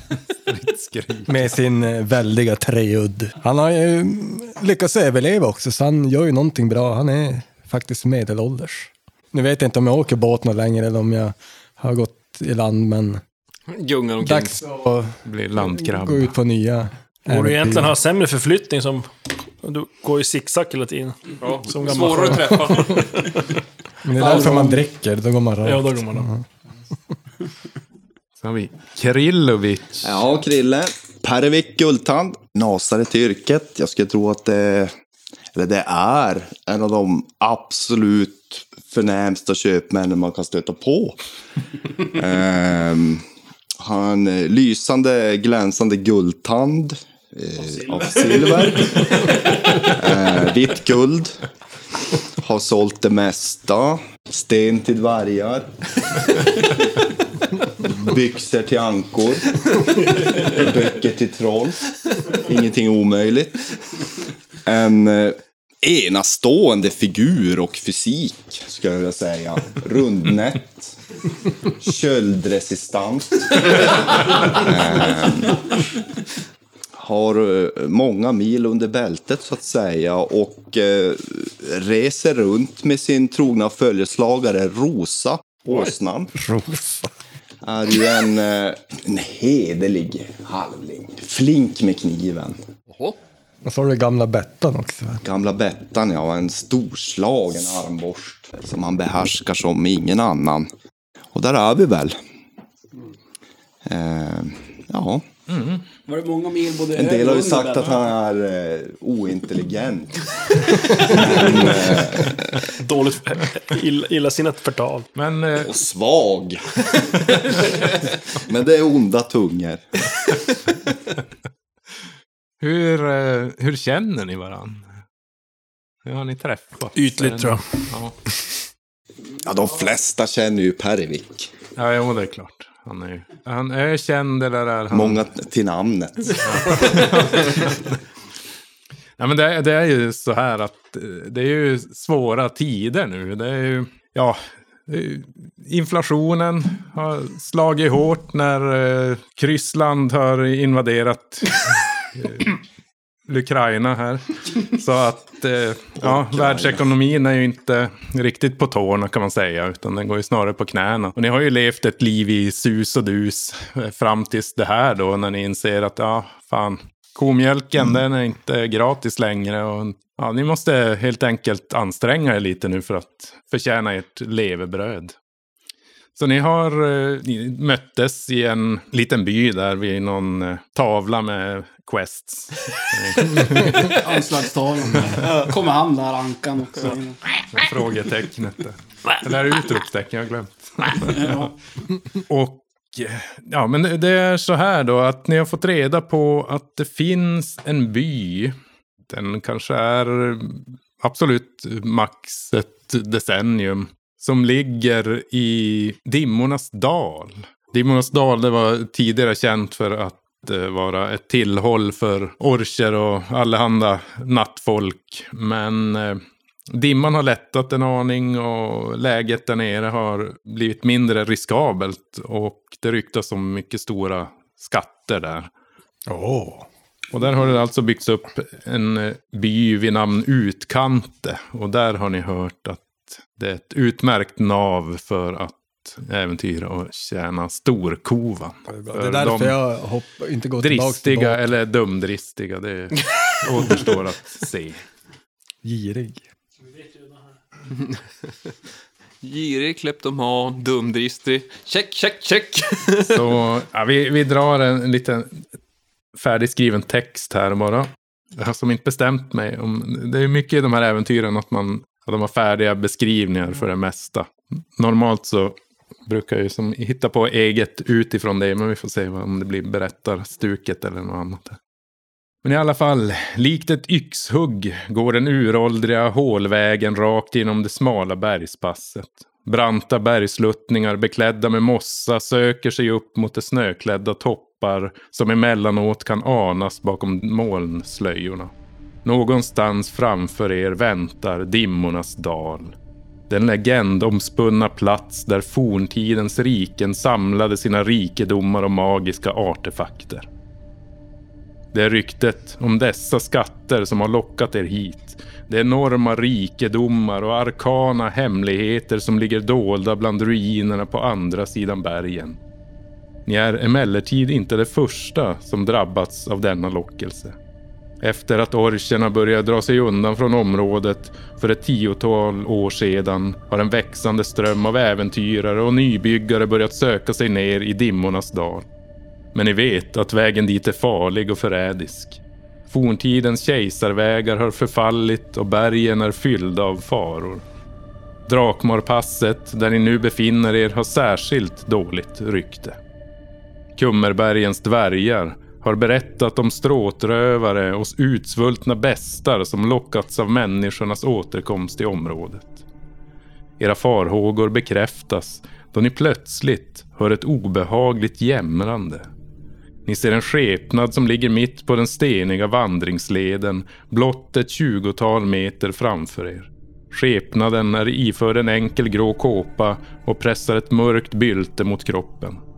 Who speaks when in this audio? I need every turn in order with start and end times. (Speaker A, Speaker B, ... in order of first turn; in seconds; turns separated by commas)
Speaker A: 0.3-1.5, Speaker B: 1.2-13.2, Speaker C: 13.7-14.6, Speaker B: 14.2-18.0, Speaker A: 15.2-16.3, Speaker D: 17.3-19.1, Speaker D: 19.6-23.4, Speaker C: 21.4-23.3, Speaker B: 24.0-26.4, Speaker D: 24.2-24.8, Speaker C: 24.2-24.5, Speaker D: 25.6-26.3, Speaker A: 28.4-30.2, Speaker E: 30.0-34.9, Speaker E: 35.5-41.2, Speaker E: 42.0-43.2, Speaker E: 43.8-49.3, Speaker E: 49.8-51.4, Speaker E: 52.4-55.7, Speaker E: 57.8-59.6, Speaker E: 60.2-63.6, Speaker E: 64.6-71.0, Speaker E: 71.6-75.6, Speaker E: 77.0-86.3, Speaker B: 86.3-87.1, Speaker E: 87.6-92.6, Speaker C: 92.9-93.2, Speaker B: 93.6-95.2, Speaker E: 95.2-100.7, Speaker E: 101.3-102.2, Speaker E: 103.8-105.2, Speaker A: 105.5-105.8, Speaker F: 106.1-108.0, Speaker E: 106.9-110.3, Speaker E: 111.0-112.5, Speaker D: 112.7-115.1, Speaker A: 115.1-115.7, Speaker E: 115.5-116.8, Speaker E: 118.3-120.0, Speaker A: 122.6-124.9, Speaker A: 126.0-128.1, Speaker D: 126.9-127.8, Speaker E: 129.4-131.5, Speaker A: 131.8-135.2, Speaker E: 134.9-137.0, Speaker A: 136.4-138.0, Speaker A: 139.2-152.6, Speaker A: 153.3-175.1, Speaker E: 156.0-156.9, Speaker A: 176.2-184.0, Speaker F: 183.9-187.2, Speaker A: 187.5-191.5, Speaker F: 191.0-191.5, Speaker A: 192.3-198.5, Speaker A: 199.1-225.5, Speaker B: 226.1-226.7, Speaker A: 227.1-239.6, Speaker B: 238.7-241.5, Speaker A: 240.6-244.8, Speaker B: 245.6-246.2, Speaker D: 246.6-247.2, Speaker C: 249.2-253.2, Speaker A: 253.0-255.4, Speaker A: 256.1-265.6, Speaker A: 266.1-271.6, Speaker A: 272.4-288.5, Speaker A: 289.0-292.7, Speaker A: 293.3-300.2, Speaker A: 301.7-312.4, Speaker A: 313.2-317.4, Speaker A: 318.0-328.6, Speaker A: 329.3-337.4, Speaker A: 338.3-342.8, Speaker A: 343.8-352.6, Speaker A: 353.6-359.1, Speaker A: 359.9-372.4